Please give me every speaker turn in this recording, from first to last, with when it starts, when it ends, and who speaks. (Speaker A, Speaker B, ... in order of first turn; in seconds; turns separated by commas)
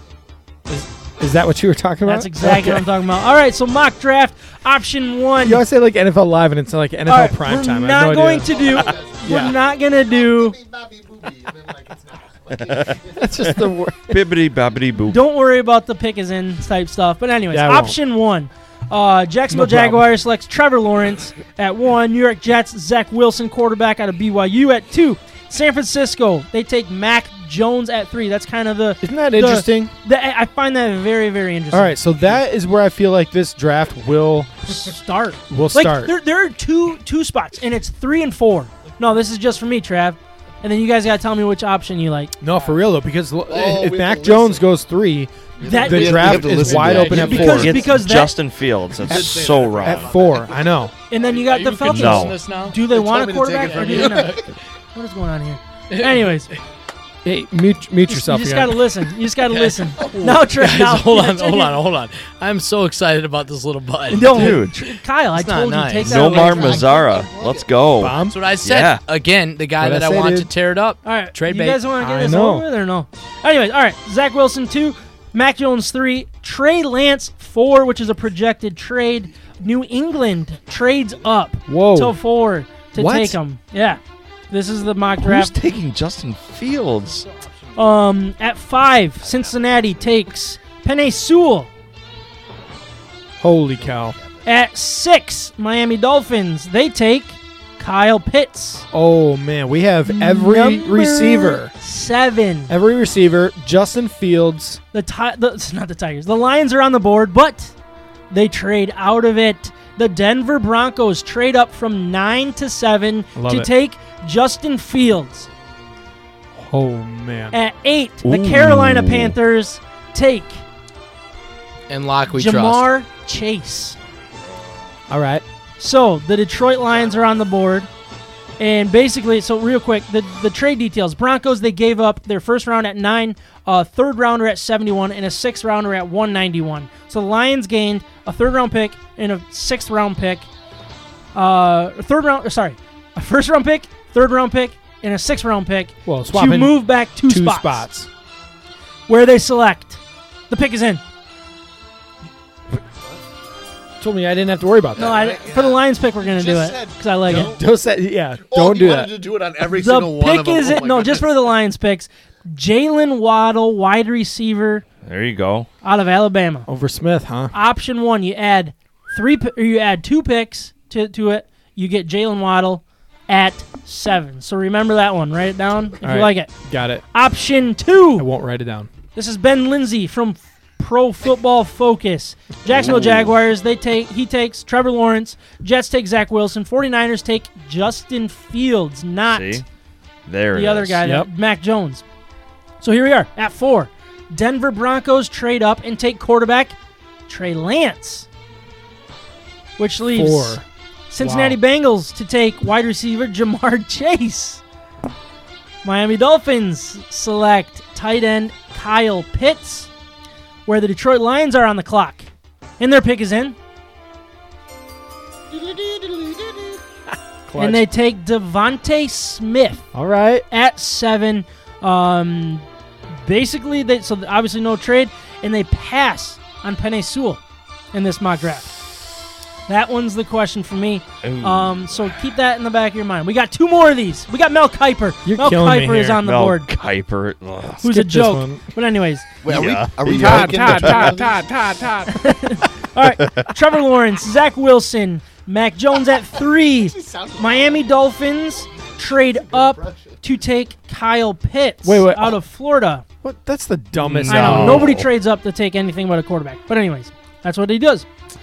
Speaker A: 0.7-2.9, Speaker B: 2.0-5.6, Speaker A: 5.4-8.7, Speaker B: 7.1-10.6, Speaker C: 8.5-13.0, Speaker A: 9.2-9.6, Speaker D: 12.5-12.9, Speaker A: 13.1-14.2, Speaker D: 14.1-15.2, Speaker B: 15.1-32.0, Speaker A: 17.5-18.0, Speaker A: 19.5-20.1, Speaker A: 29.0-29.9, Speaker A: 31.7-34.9, Speaker B: 34.7-42.3, Speaker A: 35.5-36.1, Speaker A: 42.4-47.8, Speaker C: 43.5-44.7, Speaker C: 45.6-47.9, Speaker B: 45.6-48.3, Speaker E: 46.6-47.5, Speaker D: 47.4-50.1, Speaker C: 49.0-50.7, Speaker A: 49.1-50.9, Speaker B: 51.1-54.4, Speaker E: 51.5-52.8, Speaker D: 51.8-52.4, Speaker C: 52.7-54.5, Speaker E: 53.7-54.3, Speaker B: 54.9-56.5, Speaker E: 55.9-56.2, Speaker A: 57.2-58.8, Speaker B: 58.1-61.7, Speaker E: 59.5-64.5, Speaker C: 60.0-60.4, Speaker B: 64.1-66.9, Speaker D: 64.2-64.8, Speaker E: 65.3-66.2, Speaker D: 66.0-69.0, Speaker C: 66.3-67.8, Speaker A: 68.0-68.3, Speaker E: 68.3-71.8, Speaker A: 69.8-70.5, Speaker B: 71.0-85.6, Speaker A: 72.0-72.7, Speaker A: 81.7-82.2, Speaker A: 82.9-83.4, Speaker D: 85.2-87.2, Speaker E: 87.3-87.7, Speaker B: 87.8-91.7, Speaker C: 89.2-89.9, Speaker A: 93.4-94.2, Speaker C: 93.8-94.4, Speaker B: 94.4-98.8, Speaker A: 98.9-101.7, Speaker B: 100.1-102.7, Speaker A: 102.7-104.8, Speaker B: 104.9-107.7, Speaker B: 108.3-115.5, Speaker A: 113.3-113.7, Speaker A: 116.5-117.6, Speaker B: 117.5-120.6, Speaker D: 118.2-119.3, Speaker E: 121.9-122.8, Speaker B: 122.3-124.0, Speaker A: 125.1-125.4, Speaker B: 125.8-127.9, Speaker B: 128.6-140.5, Speaker B: 141.3-147.8, Speaker A: 146.1-148.1, Speaker B: 149.1-151.0, Speaker C: 152.8-153.2, Speaker A: 154.0-155.2, Speaker C: 154.9-157.7, Speaker B: 154.9-157.5, Speaker A: 157.3-159.2, Speaker C: 158.4-161.3, Speaker B: 159.7-164.8, Speaker D: 165.0-165.7, Speaker B: 165.8-166.7, Speaker A: 166.7-167.5, Speaker B: 167.5-176.5, Speaker A: 176.0-177.0, Speaker B: 177.1-178.3, Speaker A: 178.2-178.9, Speaker B: 179.1-189.6, Speaker D: 182.7-183.3, Speaker D: 189.3-189.6, Speaker D: 190.2-191.0, Speaker B: 190.5-192.0, Speaker A: 191.0-191.3, Speaker B: 192.8-196.8, Speaker B: 197.3-198.3, Speaker B: 199.8-204.6, Speaker A: 200.1-200.6, Speaker A: 201.2-201.6, Speaker B: 205.8-209.9, Speaker B: 210.7-213.6, Speaker A: 215.8-216.3, Speaker A: 217.5-217.8, Speaker B: 217.6-219.8, Speaker A: 219.9-220.4, Speaker B: 220.5-222.6, Speaker B: 223.2-227.4, Speaker B: 227.9-228.8, Speaker B: 229.7-236.7, Speaker D: 231.2-231.9, Speaker A: 235.2-236.2, Speaker D: 236.2-237.8, Speaker B: 237.8-239.3, Speaker A: 237.8-238.6, Speaker C: 239.4-241.5, Speaker D: 239.5-241.1, Speaker F: 240.1-242.1, Speaker A: 240.2-240.7, Speaker B: 242.1-253.0, Speaker C: 246.7-248.0, Speaker C: 248.9-250.2, Speaker A: 251.8-252.4, Speaker A: 253.2-254.9, Speaker D: 254.0-255.1, Speaker B: 254.3-258.1